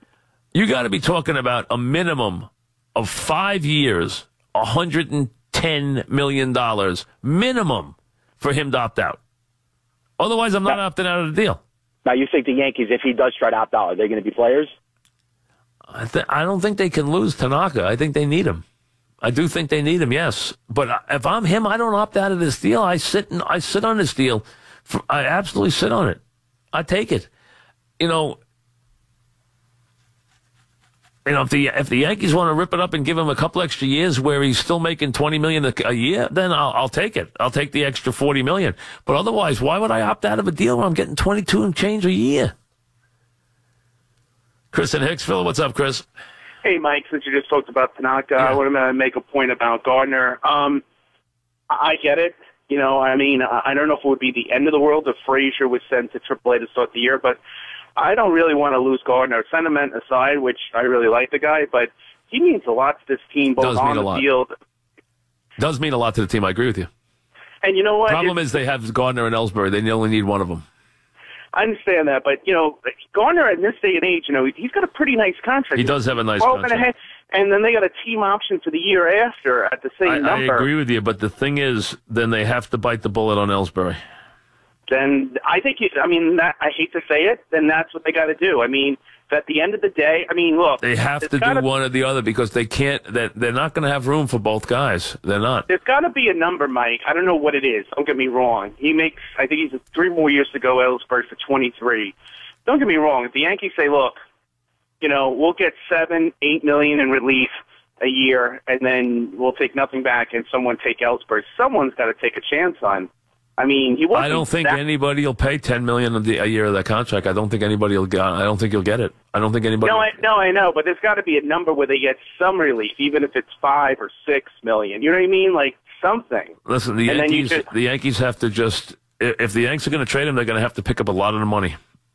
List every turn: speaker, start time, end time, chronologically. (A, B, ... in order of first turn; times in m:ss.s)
0:00.5-0:09.2 A
0:10.2-0:11.6 A
0:12.0-0:14.7 B
0:15.9-0:18.6 A
0:19.2-0:26.2 A
0:26.7-0:27.3 A
0:28.0-0:28.4 A
0:31.2-0:42.5 A
0:44.7-0:46.0 A
0:46.6-0:50.8 C
0:51.7-0:57.4 C
0:58.0-1:04.5 C
1:03.6-1:04.2 A
1:05.6-1:06.9 A
1:07.6-1:08.4 C
1:08.0-1:10.6 A
1:11.5-1:20.7 C
1:15.8-1:16.9 A
1:20.0-1:24.0 A
1:24.9-1:31.7 C
1:30.8-1:35.6 A
1:35.7-1:42.1 C
1:42.6-1:44.2 C
1:45.0-1:54.8 C
1:54.1-2:00.2 A
1:59.8-2:06.5 C
2:06.7-2:11.8 A
2:07.1-2:07.7 C